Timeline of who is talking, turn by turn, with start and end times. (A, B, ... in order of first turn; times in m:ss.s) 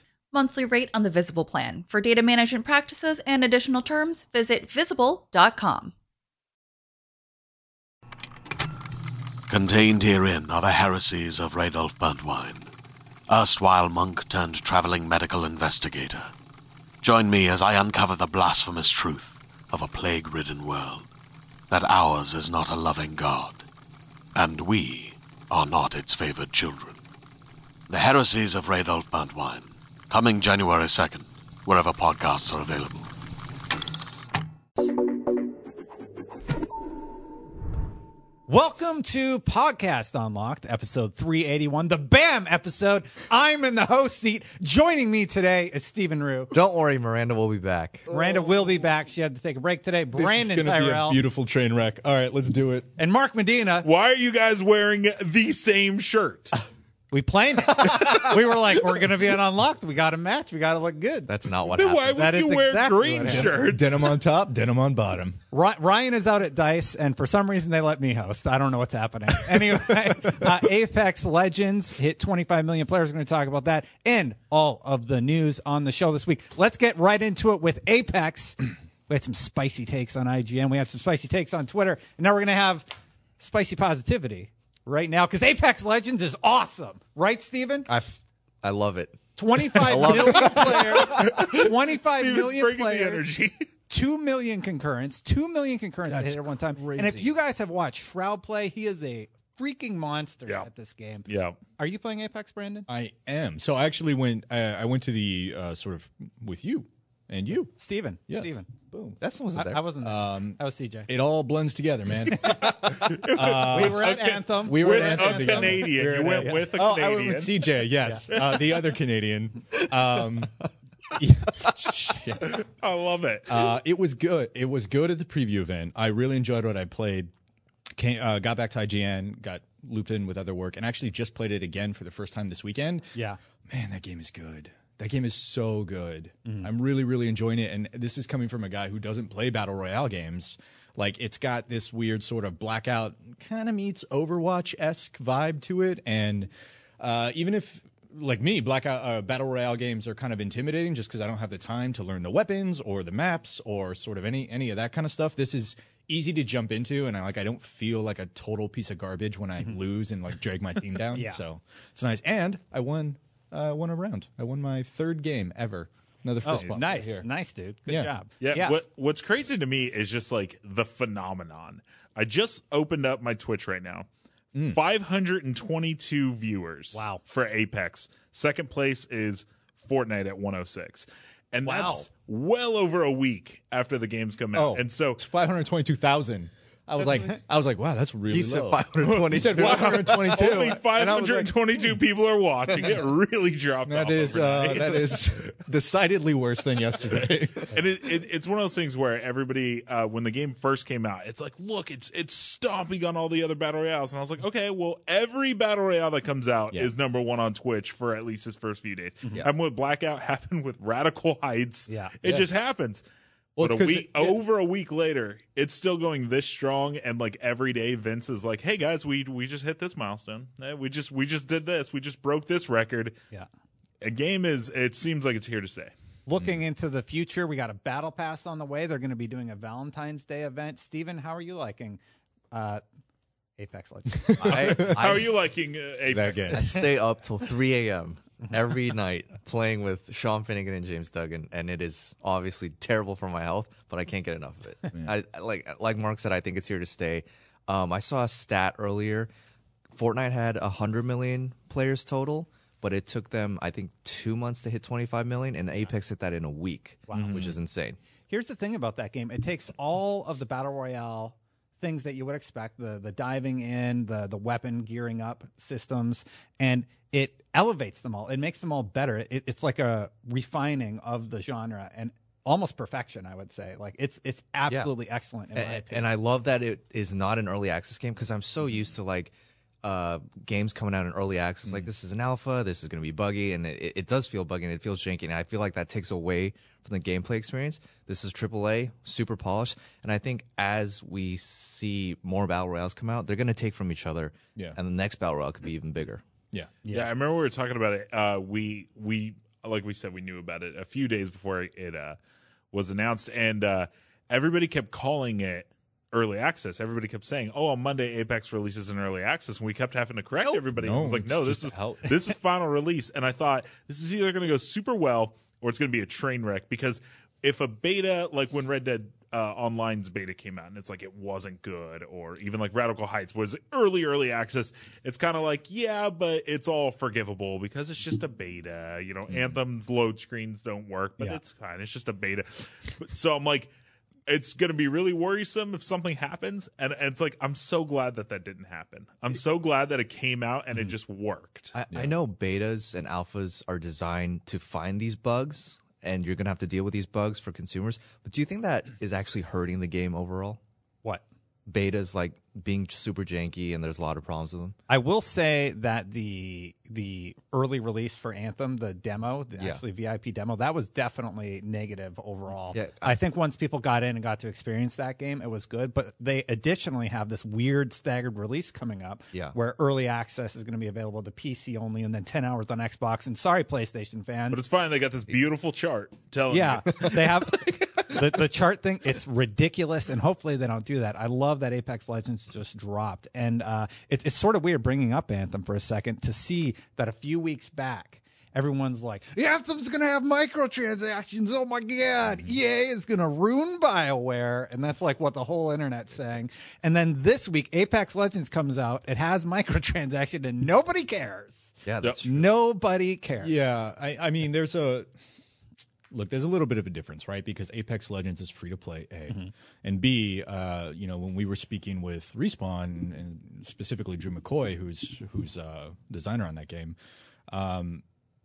0:00.3-0:05.9 A
0:09.5-0:12.7 B
0:13.3-0:16.3 B
0:17.0-0:21.1 B
0:21.7-0:23.6 B
0:24.4-0:27.0 B
0:27.9-0:33.1 B
0:38.5-0:46.5 C
0:46.5-0:48.1 D
0:48.1-0:51.2 C
0:50.2-0:52.9 E
0:53.0-0:53.9 C
0:53.8-0:56.6 F
0:57.1-1:01.3 C
1:01.3-1:02.3 D
1:01.8-1:04.2 F
1:02.1-1:03.6 C
1:03.2-1:05.4 E
1:05.5-1:22.9 C
1:23.4-1:27.9 C
1:27.9-1:31.0 D
1:29.4-1:33.2 C
1:31.1-1:33.6 F
1:33.9-1:41.3 C
1:36.1-1:37.3 E
1:41.3-1:41.6 F
1:41.8-1:42.9 C
1:42.9-1:47.7 E
1:47.8-1:48.7 C
1:48.3-1:49.2 E
1:49.2-1:49.9 D
1:49.6-1:51.1 C
1:50.0-2:00.6 E
1:52.5-1:57.7 F
1:53.7-1:56.6 C
1:58.3-1:58.7 F
2:01.1-2:02.6 E
2:02.4-2:03.7 F
2:03.5-2:07.3 E
2:08.0-2:13.1 E
2:13.7-2:47.3 E
2:41.1-2:41.4 C
2:46.4-2:48.8 C
2:48.4-2:54.1 F
2:54.5-2:54.8 E
2:54.7-3:05.2 F
2:56.9-2:57.2 C
3:01.6-3:02.1 C
3:04.5-3:11.9 E
3:08.3-3:10.6 D
3:09.3-3:15.3 F
3:13.8-3:17.8 E
3:17.7-3:33.0 F
3:31.9-3:32.4 C
3:33.6-3:34.4 E
3:33.6-3:43.2 F
3:44.0-3:45.9 F
3:46.3-3:52.0 C
3:52.5-3:52.8 C
3:53.6-3:55.0 C
3:54.3-3:55.0 E
3:54.4-3:55.3 D
3:54.9-3:56.6 F
3:56.1-3:56.7 E
3:56.5-4:09.3 D
4:10.0-4:18.0 D
4:17.1-4:17.6 F
4:18.3-4:36.1 C
4:35.5-4:56.2 D
4:56.9-5:02.2 F
5:02.7-5:33.7 F
5:10.4-5:12.2 E
5:34.3-5:41.8 F
5:41.7-5:50.6 D
5:51.7-5:54.8 D
5:54.9-6:14.6 C
5:59.6-5:59.8 D
6:02.7-6:03.2 D
6:14.5-6:17.2 F
6:16.5-6:43.5 C
6:16.9-6:18.0 D
6:41.9-6:42.5 D
6:43.4-6:45.1 E
6:46.1-6:57.0 E
6:57.5-6:58.0 E